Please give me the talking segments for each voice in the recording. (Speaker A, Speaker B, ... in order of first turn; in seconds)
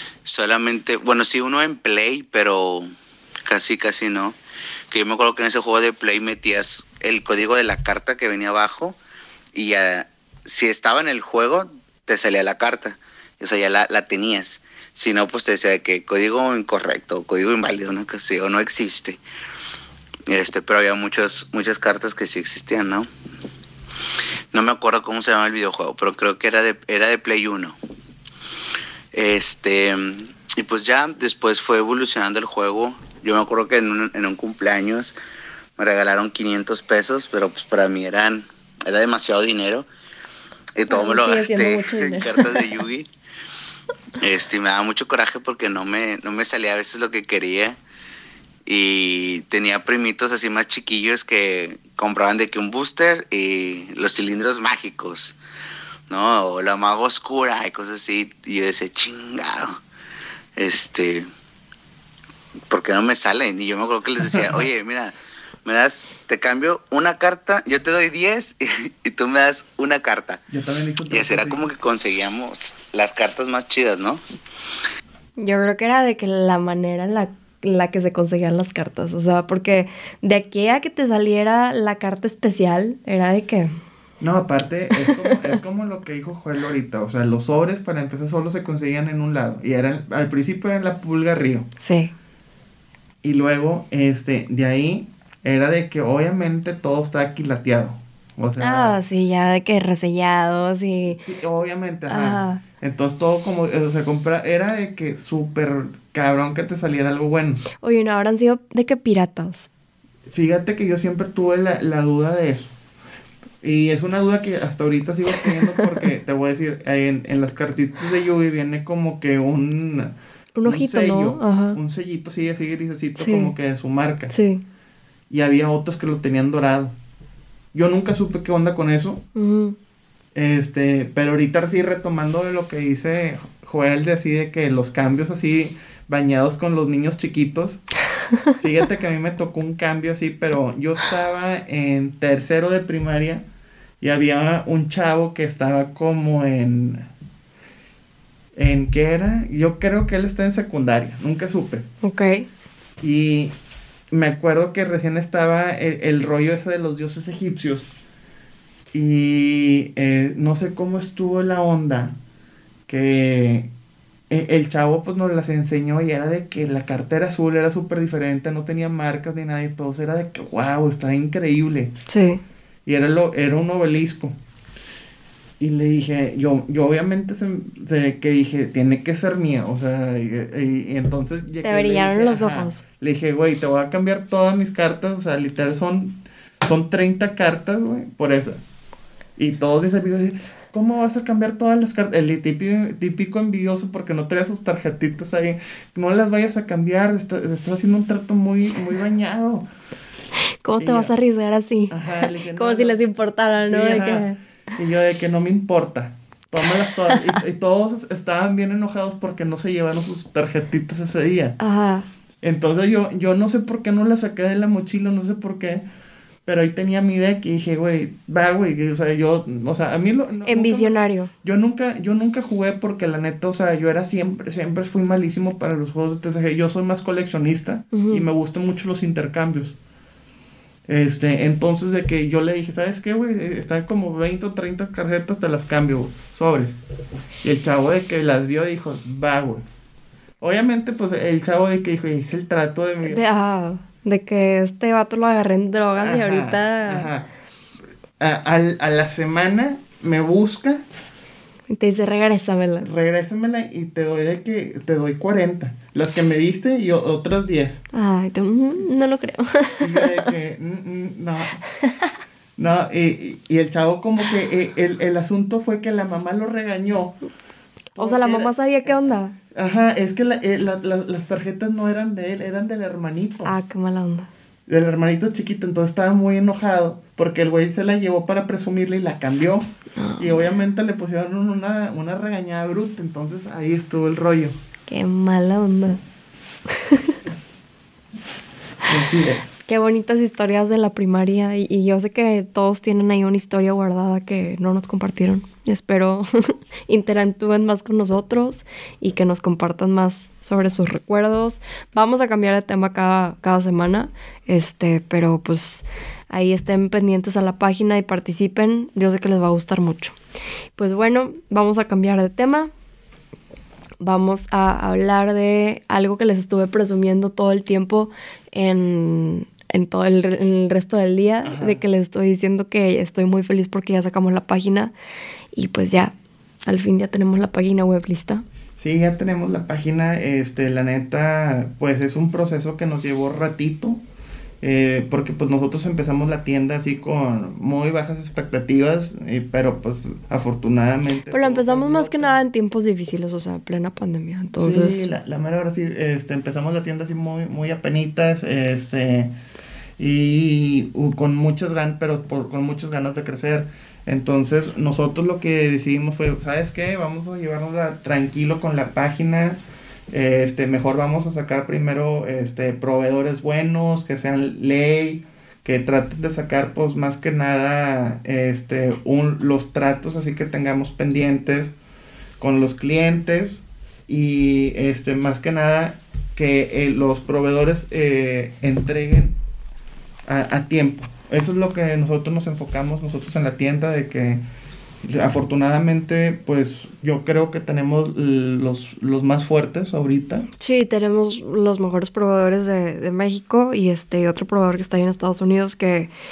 Speaker A: 0.2-2.9, 3.5-4.4, 4.9-9.0, 9.5-19.2, 20.3-23.1, 24.5-27.8, 29.1-35.1, 35.8-39.9, 40.8-43.1, 44.2-47.8, 48.6-55.4, 56.1-59.8, 60.6-61.3, 62.7-65.1, 65.6-70.4, 71.1-74.2
Speaker B: 40.9-42.7, 75.4-83.7, 91.8-92.1, 98.6-101.2, 102.1-102.6, 107.8-109.7, 120.5-121.8, 123.2-123.5, 124.3-124.6, 129.3-129.8, 152.0-152.5, 172.1-172.4, 181.6-182.8, 200.6-204.4, 206.6-207.3, 211.6-212.1, 220.4-221.3, 227.9-228.2, 243.0-247.1, 251.7-252.9, 257.9-260.2, 261.8-262.1, 268.0-269.3, 273.4-274.3, 280.0-280.5, 284.9-286.0, 286.7-287.1, 289.6-310.1, 310.8-312.7, 314.0-324.9, 325.5-326.1, 326.7-328.4, 341.3-345.1, 390.6-396.1
Speaker C: 64.3-64.6, 70.5-71.6, 84.2-91.7, 93.2-99.0, 101.1-107.6, 110.3-112.7, 113.6-124.3, 125.3-126.9, 127.7-129.2, 130.3-137.8, 138.6-143.4, 144.0-147.1, 148.6-151.8, 153.0-153.5, 154.1-157.9, 158.9-162.1, 162.9-163.7, 164.3-171.9, 172.8-174.3, 175.6-188.6, 189.4-199.7, 200.8-201.1, 201.9-203.0, 203.6-211.6, 212.4-215.8, 216.4-229.7, 230.9-236.8, 237.4-239.6, 240.4-243.2, 246.0-247.3, 248.2-250.8, 252.8-257.8, 259.8-261.6, 262.6-267.2, 267.9-273.6, 274.7-279.6, 280.2-284.5, 288.9-289.5, 321.4-321.8, 328.8-334.0, 334.6-342.4, 344.6-349.3, 350.0-359.6, 360.1-371.7, 372.4-379.4, 380.3-384.4, 385.0-390.5